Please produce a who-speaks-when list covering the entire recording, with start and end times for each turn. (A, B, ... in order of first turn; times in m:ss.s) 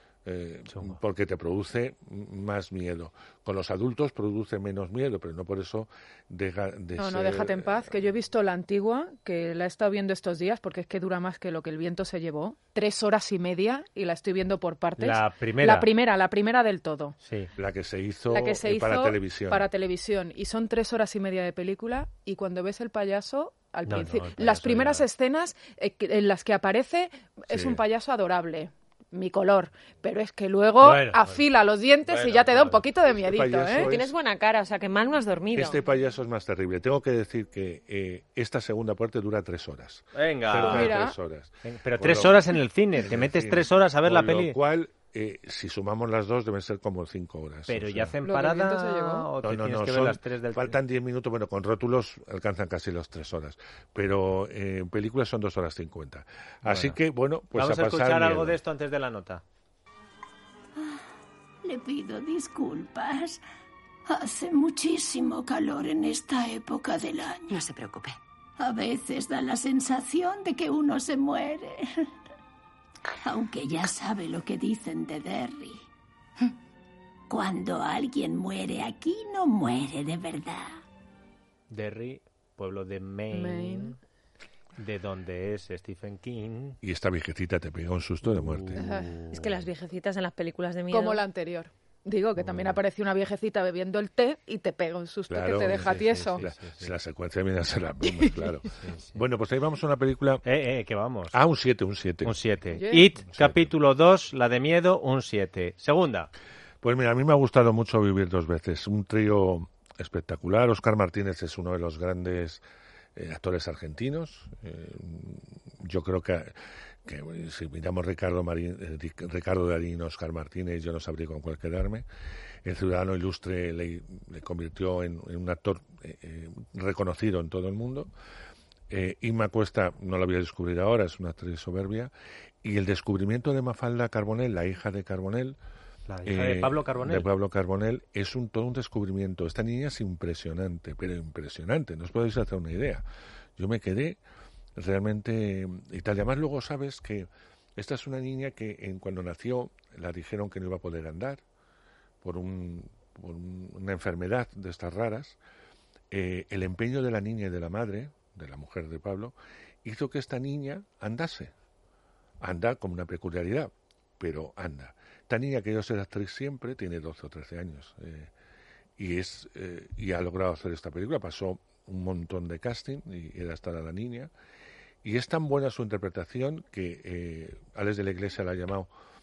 0:00.2-0:08.0 A
0:00.7-0:01.0 B
0:07.0-0:17.2 C
0:15.0-0:15.9 B
0:17.2-0:17.5 B
0:17.6-0:19.7 A
0:18.3-0:33.9 C
0:23.8-0:25.0 B
0:27.5-0:27.8 A
0:30.8-0:31.4 B
0:32.1-0:32.8 B
0:33.1-0:34.1 A
0:33.8-0:35.8 D
0:35.5-0:48.1 A
0:40.2-0:40.9 B
0:40.6-0:41.2 C
0:41.6-0:44.6 B
0:47.7-0:50.8 B
0:48.2-0:49.3 C
0:49.4-0:58.6 A
0:56.6-0:57.0 B
0:57.6-0:59.4 B
1:01.6-1:03.4 E
1:04.1-1:07.7 E
1:08.6-1:12.1 E
1:13.2-1:15.8 E
1:17.3-1:20.8 E
1:21.7-1:24.0 B
1:23.3-1:24.0 C
1:24.8-1:26.8 B
1:26.8-1:28.9 A
1:28.2-1:29.6 B
1:28.8-1:29.2 C
1:29.3-1:31.2 D
1:30.9-1:36.4 C
1:32.4-1:32.8 B
1:35.3-1:40.4 A
1:35.7-1:36.9 B
1:38.8-1:39.2 B
1:40.4-1:41.4 B
1:41.3-1:42.4 A
1:42.2-1:46.3 B
1:42.8-1:43.1 C
1:43.3-1:43.7 A
1:46.8-1:52.6 A
1:53.2-1:56.5 A
1:57.0-2:02.1 A
2:02.6-2:08.1 A
2:08.9-2:12.1 A
2:12.6-2:15.6 A
2:16.1-2:17.3 B
2:16.3-2:23.0 A
2:23.6-2:24.2 A
2:24.8-2:31.4 A
2:32.2-2:35.4 A
2:36.1-2:41.5 A
2:42.4-2:48.3 A
2:49.0-2:54.3 A
2:55.0-2:58.9 A